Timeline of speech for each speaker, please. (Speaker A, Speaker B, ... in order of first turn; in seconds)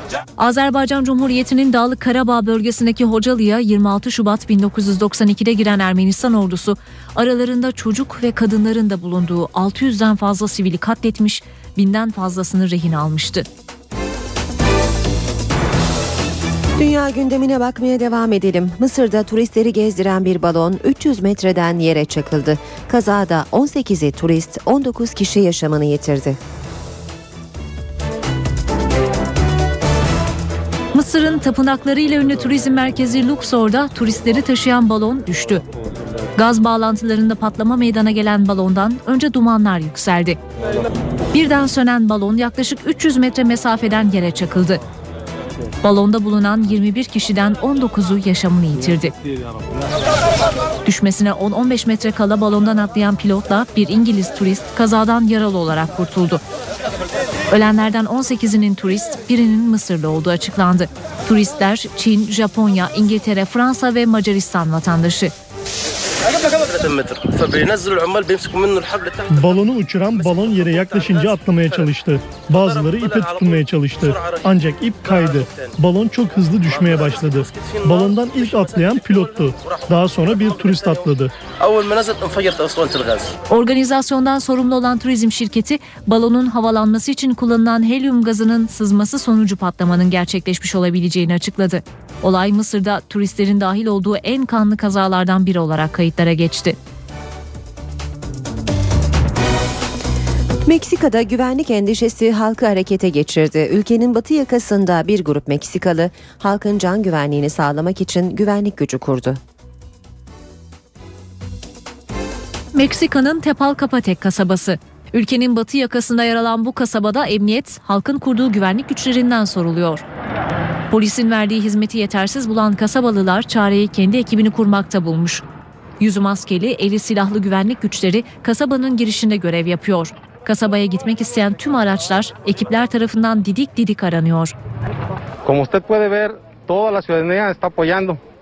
Speaker A: 0.4-13.4, 30.9-35.6, 36.4-40.4, 41.3-44.8, 45.8-49.1, 50.8-56.4, 57.5-65.3, 83.5-96.7, 112.7-120.0, 120.9-125.4, 126.0-134.5
Speaker B: 16.8-26.4, 100.7-109.4
Speaker C: 66.6-69.2, 81.7-83.2
Speaker D: 69.3-81.3
Speaker E: 135.5-138.2